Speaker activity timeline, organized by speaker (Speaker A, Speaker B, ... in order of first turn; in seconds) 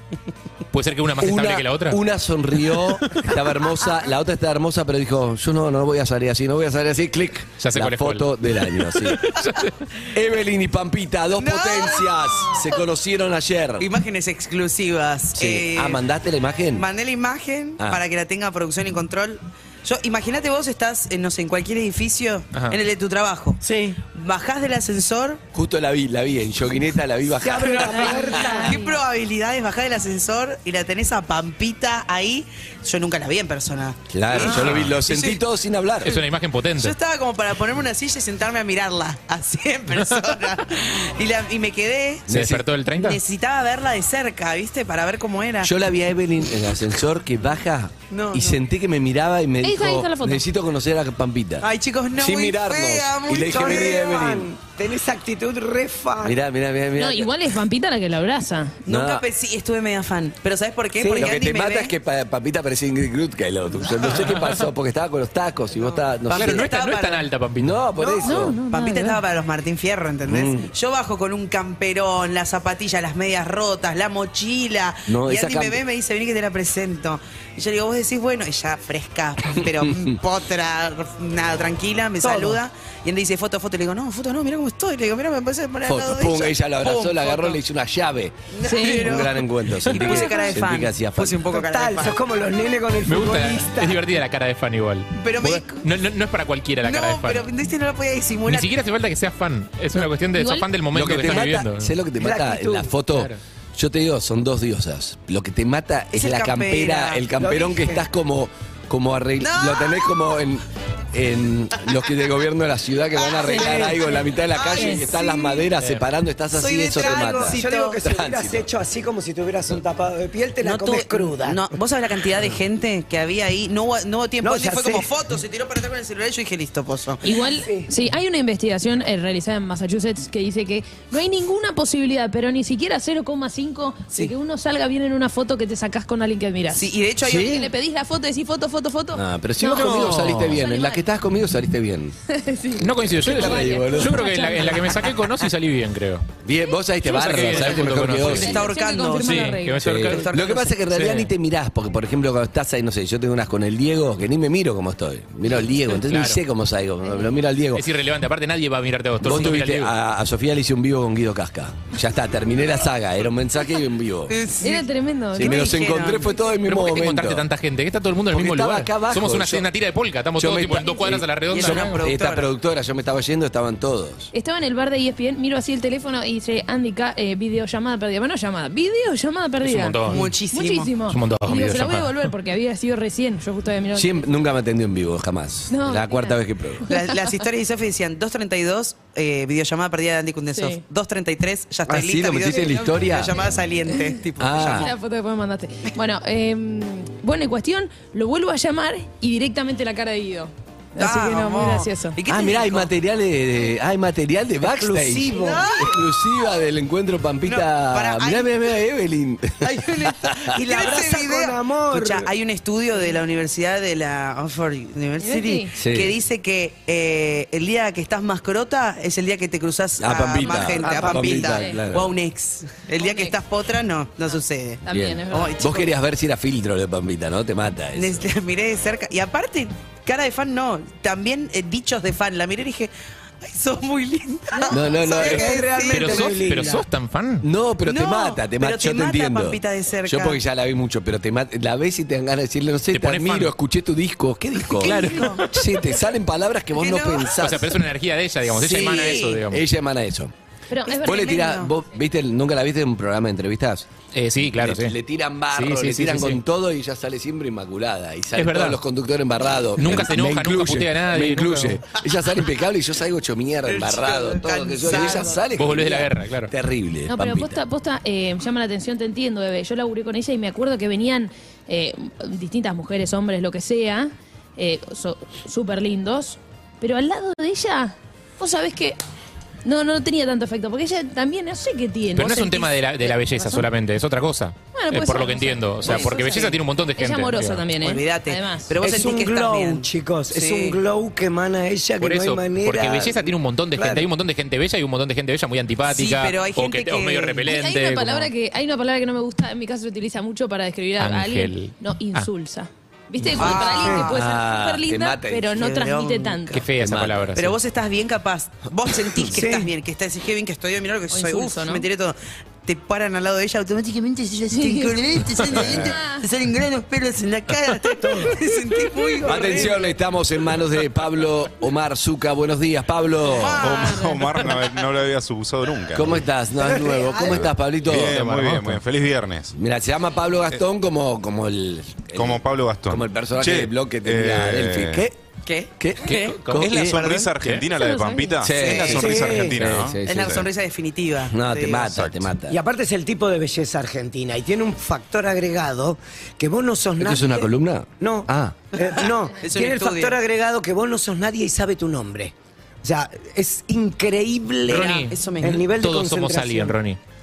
Speaker A: 0.7-2.0, 7.6-9.8, 22.5-22.8, 34.5-34.9, 36.0-37.0, 42.3-43.2, 66.3-67.8, 93.0-97.4, 98.5-101.9, 103.1-103.4, 139.7-140.6, 142.8-146.3, 147.0-150.3, 150.9-151.3, 156.0-156.4, 157.7-159.9, 166.7-172.0, 179.6-180.3, 181.1-182.3, 235.9-237.5, 242.9-243.5, 244.7-245.6, 247.3-249.6, 254.1-254.9, 255.5-256.4, 258.4-258.8, 259.8-261.8, 265.5-266.5, 282.1-287.6, 292.0-298.3, 301.0-302.3, 306.5-307.6, 336.0-336.8, 337.4-337.6, 354.7-357.0
Speaker B: 1.2-9.3, 10.1-13.8, 15.3-16.8, 25.5-28.0, 34.1-36.1, 42.3-42.6, 45.6-51.6, 52.2-54.5, 56.2-57.3, 58.9-59.2, 61.1-66.7, 67.6-68.6, 70.3-70.7, 75.1-75.8, 85.8-91.5, 100.9-118.7, 139.1-142.1, 143.1-144.2, 146.4-148.6, 149.8-157.8, 159.2-164.3, 165.3-167.4, 168.3-169.7, 170.4-174.3, 183.9-186.8, 191.9-193.3, 194.4-194.9, 202.3-209.7, 215.8-216.1, 220.0-222.1, 224.9-228.2, 234.7-235.6, 237.4-247.7, 248.6-250.3, 250.9-253.9, 254.5-267.6, 303.9-305.5, 306.8-307.3, 319.2-323.7, 325.9-328.8, 329.5-335.1, 335.8-337.1, 338.4-340.4, 341.3-342.5, 347.0-348.6
Speaker C: 11.3-12.6, 13.8-16.0, 16.7-25.4, 27.6-35.4, 36.8-42.4, 42.9-45.7, 48.1-48.6, 51.6-54.2, 58.9-61.9, 65.7-67.3, 68.0-87.6, 88.5-92.2, 95.2-95.8, 96.8-98.7, 106.1-107.2, 109.4-110.0, 113.2-113.6, 114.5-115.7, 116.5-118.0, 120.6-127.2, 136.7-137.7, 148.2-150.8, 164.3-166.3, 171.5-172.5, 180.1-180.9, 186.9-194.9, 201.0-202.9, 205.3-206.0, 207.4-208.6, 209.6-225.9, 227.9-232.9, 233.4-236.5, 237.8-240.4, 244.7-245.4, 246.7-247.4, 248.5-249.4, 251.0-251.7, 263.7-265.4, 287.8-290.8, 295.9-297.5, 303.4-304.1, 305.5-306.7, 307.3-319.9, 323.3-324.4, 335.4-337.3, 338.6-339.0, 340.1-341.9, 348.9-350.1, 354.7-355.6
Speaker D: 27.4-28.8, 53.5-56.4, 82.2-82.6, 91.5-94.0, 102.2-102.9, 107.4-108.1, 117.0-121.7, 124.4-125.1, 127.5-127.9, 204.6-205.7, 210.5-212.3, 220.8-221.4, 235.0-236.8, 288.8-293.1, 293.8-294.1, 303.6-304.1, 309.2-309.7, 318.0-318.4, 319.4-319.7, 338.9-339.6, 342.5-356.8
Speaker E: 27.7-29.0, 49.6-50.4, 57.0-58.9, 68.2-69.2, 88.6-89.2, 100.3-100.7, 113.5-114.2, 114.7-115.0, 127.2-141.0, 142.3-145.0, 147.4-149.8, 164.6-165.8, 174.3-184.3, 185.7-187.2, 190.5-190.8, 193.9-202.2, 215.2-215.7, 221.5-221.7, 223.0-223.3, 224.8-225.6, 250.7-251.7, 267.1-279.0, 279.6-283.6, 284.7-288.8, 297.4-306.6, 311.1-311.8, 314.5-316.2, 337.7-338.4
Speaker F: 323.5-326.3, 327.2-329.6, 332.1-335.0, 336.5-340.4, 341.9-342.3